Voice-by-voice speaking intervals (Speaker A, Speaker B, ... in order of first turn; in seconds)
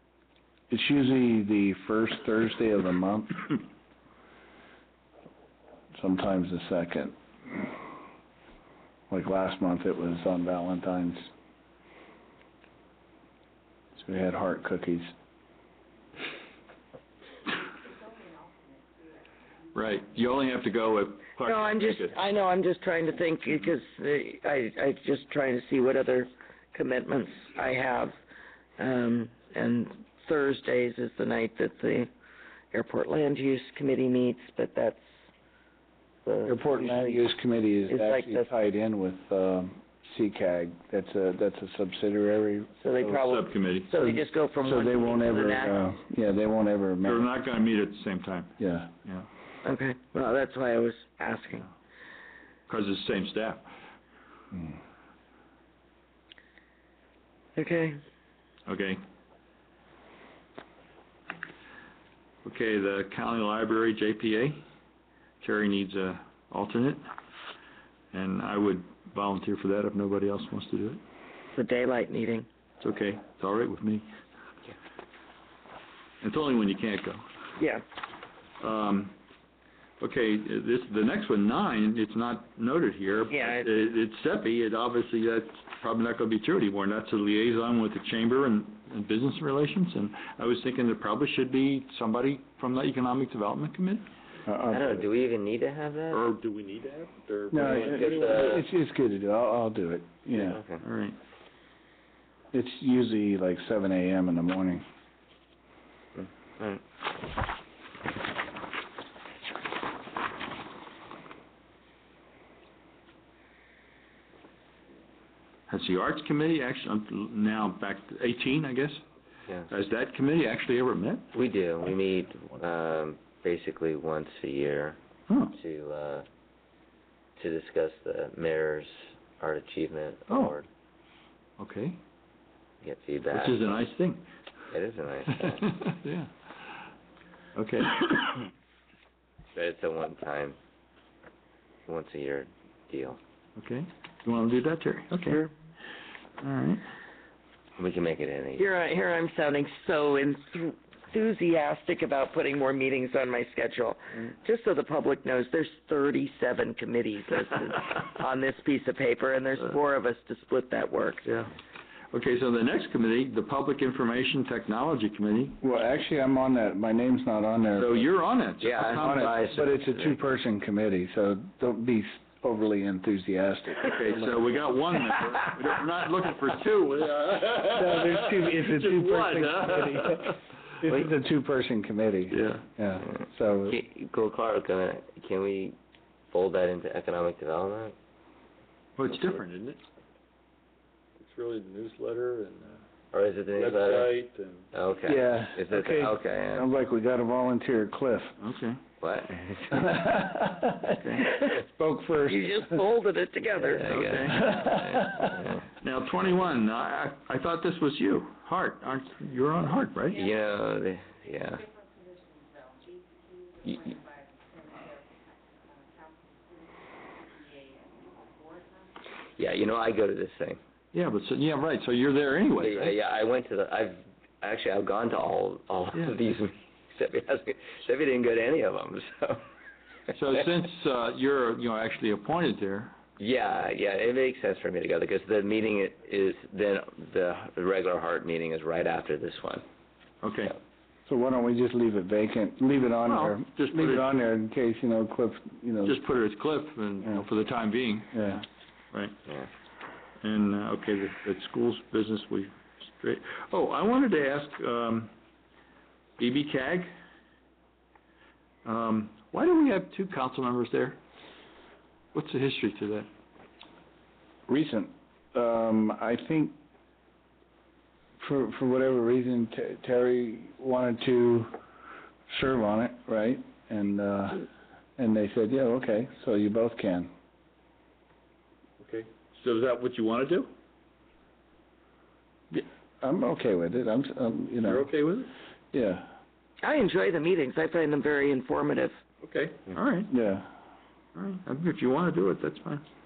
Speaker A: 0.7-3.5, 6.0-7.7, 9.1-11.3, 13.9-15.1, 36.5-43.2, 44.0-47.3, 48.6-48.9, 94.5-95.1, 97.5-100.6, 102.5-104.8, 165.6-168.0, 168.9-174.4, 177.7-183.8, 195.1-198.3, 199.7-202.8, 204.4-205.3, 241.1-246.0, 248.1-248.4, 264.5-266.6, 268.2-271.5, 272.3-277.1, 282.5-284.9, 285.7-286.1, 290.1-290.5
Speaker B: 19.7-22.2, 43.2-43.9, 47.0-49.3, 52.7-53.7, 58.6-59.0, 62.4-64.6, 65.4-67.1, 68.1-71.0, 72.8-74.1, 76.2-77.2, 78.6-79.1, 80.0-94.0, 96.1-98.6, 100.8-101.2, 115.7-119.0, 119.7-121.3, 125.3-125.5, 130.3-130.5, 131.6-132.0, 133.3-134.2, 135.3-136.3, 137.5-138.4, 143.6-145.4, 146.4-146.8, 161.2-161.5, 162.1-165.6, 167.8-169.6, 173.8-180.4, 182.3-182.7, 189.0-189.8, 191.2-192.8, 193.5-194.7, 198.4-198.8, 200.9-201.3, 203.8-204.6, 205.8-210.2, 220.9-223.0, 225.9-226.3, 230.1-232.9, 240.2-240.6, 243.1-244.1, 245.8-248.2, 250.2-255.1, 256.2-256.9, 258.6-261.0, 262.1-263.1, 278.8-280.5, 284.6-285.3, 289.2-290.1, 291.1-292.8
Speaker C: 21.4-28.1, 28.8-32.1, 32.7-35.1, 36.2-37.2, 37.9-38.5, 42.8-45.8, 49.6-51.7, 57.5-58.0, 71.5-72.5, 77.6-77.8, 83.3-83.7, 148.6-161.2, 202.3-204.1, 286.6-289.0
Speaker D: 94.7-96.2, 97.5-98.7, 100.3-100.8, 106.2-106.8, 121.3-125.0, 125.5-126.2, 127.4-130.7, 132.8-133.7, 134.7-135.7, 139.5-140.6, 141.9-143.2, 147.8-148.7, 168.6-170.2, 183.1-185.8, 186.3-187.9, 193.1-194.2, 194.7-196.7, 199.0-199.9, 203.6-205.6, 210.2-211.7, 219.3-220.6, 222.6-229.4, 233.2-239.6